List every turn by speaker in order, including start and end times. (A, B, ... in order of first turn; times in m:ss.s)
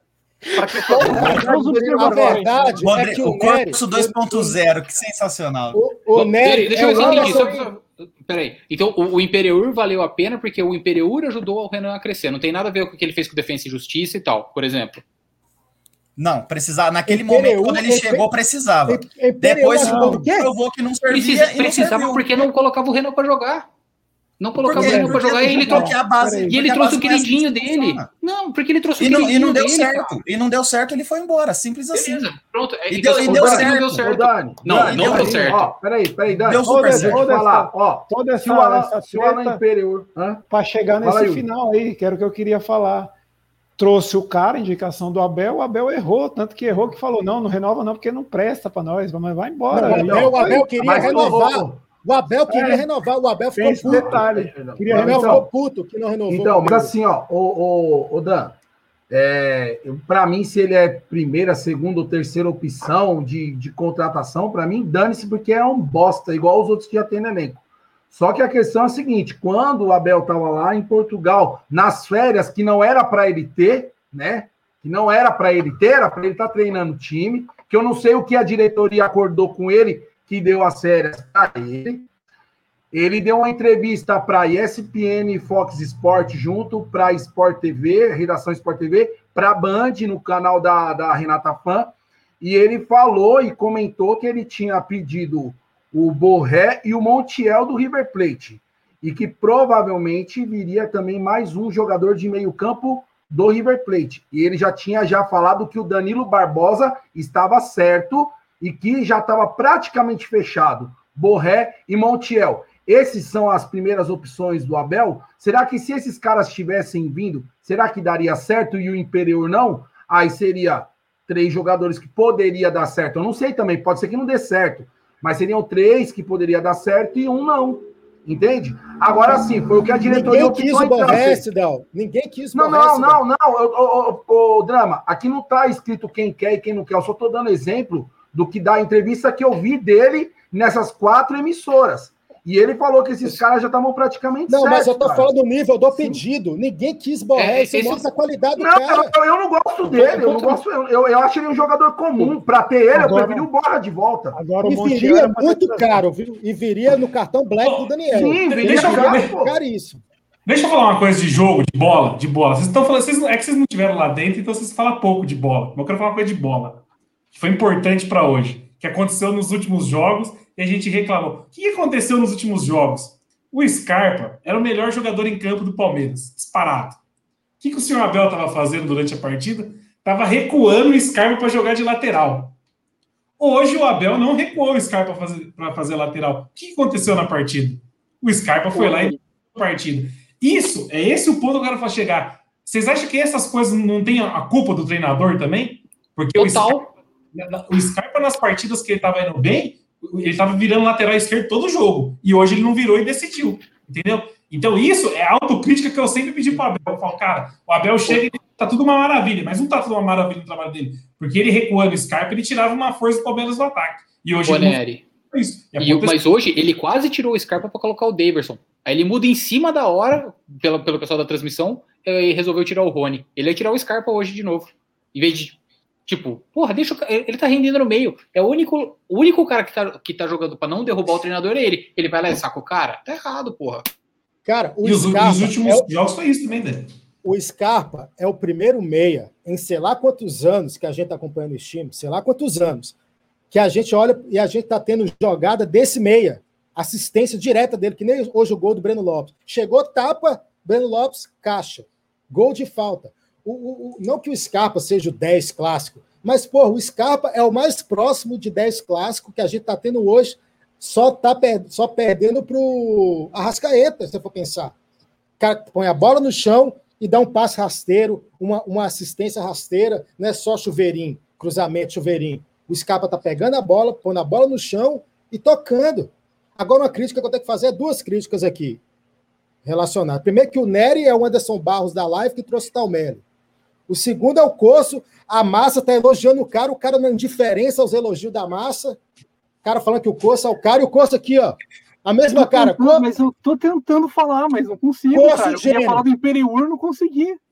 0:00.6-0:02.4 A
0:00.9-0:04.6 B
0:01.1-0:02.9 C
0:02.0-0:02.8 D
0:02.8-0:05.8 E
0:05.7-0:07.6 B
0:06.2-0:15.0 F
0:06.9-0:07.6 A
0:16.2-0:22.5 E
0:17.1-0:18.3 B
0:18.9-0:20.5 B
0:19.8-0:20.2 D
0:21.1-0:23.7 F
0:24.4-0:30.2 F
0:24.6-0:28.1 E
0:24.7-0:26.6 D
0:29.0-0:32.3 E
0:31.9-0:35.8 F
0:32.9-0:34.1 E
0:33.2-0:40.4 G
0:34.7-0:35.4 E
0:36.5-0:37.2 E
0:36.6-0:39.6 D
0:40.5-0:43.1 D
0:41.0-0:41.4 G
0:43.8-0:51.4 D
0:49.7-0:54.3 B
0:49.9-0:51.8 G
0:52.5-0:52.9 D
0:53.6-0:55.4 D
0:53.8-0:55.5 G
0:54.9-0:56.9 B
0:56.3-0:58.6 G
0:59.1-1:22.1 G
1:22.9-2:11.5 G
2:10.0-2:13.2 B
2:12.5-2:25.3 G
2:24.5-2:29.1 B
2:27.4-2:28.0 F
2:28.6-2:34.4 G
2:30.0-2:30.2 D
2:32.9-2:33.5 D
2:34.3-2:36.0 D
2:34.6-2:40.0 B
2:37.6-2:39.4 H
2:38.1-2:39.6 G
2:40.5-2:46.8 H
2:47.3-2:57.0 H
2:57.6-3:02.6 H
3:03.4-3:16.8 H
3:08.8-3:09.0 F
3:16.4-3:16.9 F
3:17.3-3:36.2 H
3:34.4-3:35.0 F
3:35.8-3:53.9 F
3:54.5-3:55.9 B
3:54.8-3:56.9 H
3:57.2-4:03.0 B
4:03.5-4:24.7 B
4:25.4-4:38.8 B
4:39.6-4:43.2 B
4:43.9-4:49.0 B
4:49.6-4:53.1 B
4:52.4-4:57.4 C
4:55.1-4:56.1 B